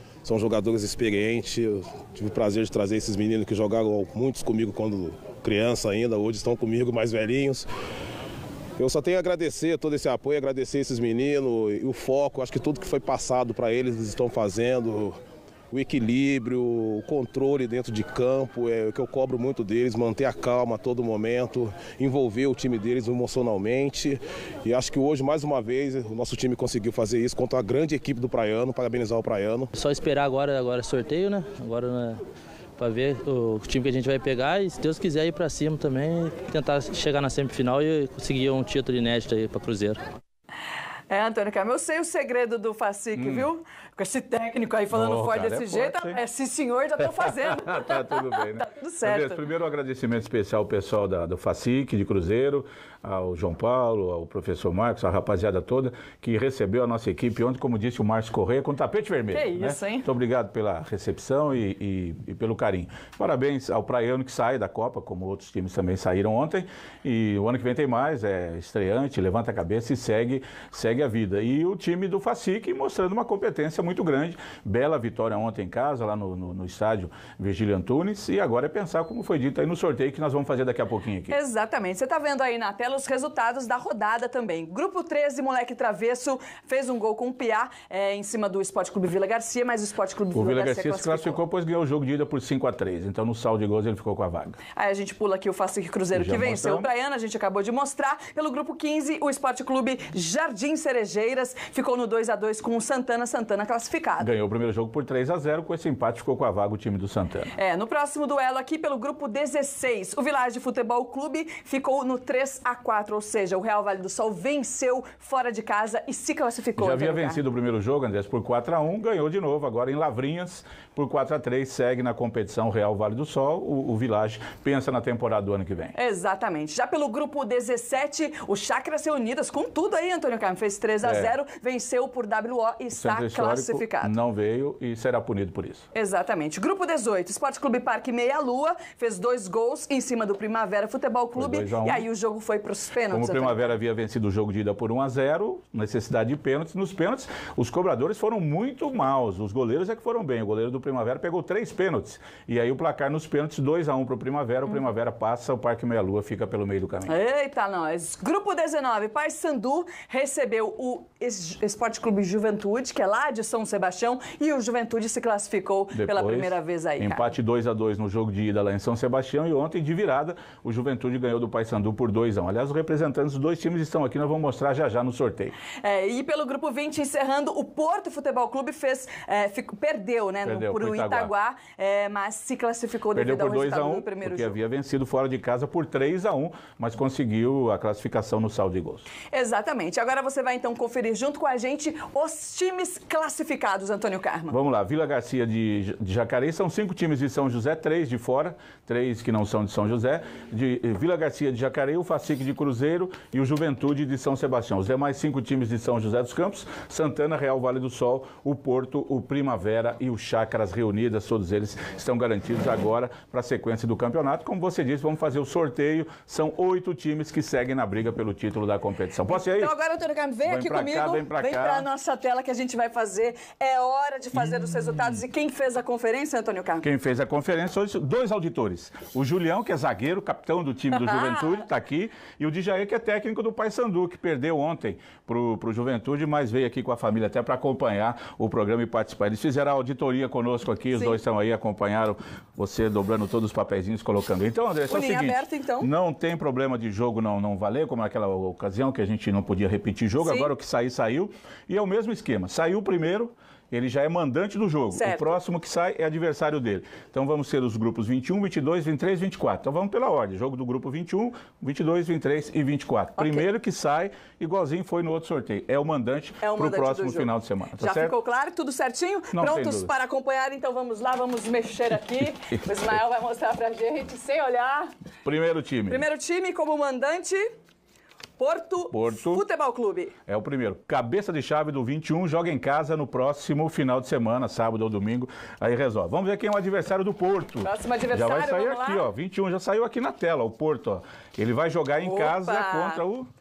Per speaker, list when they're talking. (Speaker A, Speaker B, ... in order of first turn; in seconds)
Speaker A: 0.2-7.7, 8.8-15.2, 15.7-29.7
Speaker B: 29.8-32.2, 32.8-40.0
Speaker C: 41.1-49.4, 59.3-60.1, 81.3-91.4, 94.8-104.3, 107.6-117.4, 126.0-134.2, 135.9-143.7, 157.1-167.3, 175.8-184.6, 189.3-194.6, 219.3-226.9, 230.9-231.5, 240.9-241.2, 244.9-245.9, 250.2-250.5, 254.9-255.3, 263.2-263.5, 266.4-274.9, 275.9-277.4, 278.4-280.1, 287.6-289.1, 292.0-293.0
Speaker D: 43.2-43.5, 44.9-46.2, 47.2-81.4, 90.3-94.6, 96.1-96.9, 104.2-107.5, 116.8-125.9, 131.0-131.3, 132.9-135.9, 141.3-142.1, 143.1-157.2, 165.9-175.6, 180.4-181.3, 183.1-189.1, 194.5-219.7, 220.4-221.9, 224.4-225.1, 226.8-268.1, 269.3-269.9, 275.2-276.1, 278.9-279.5, 280.3-293.3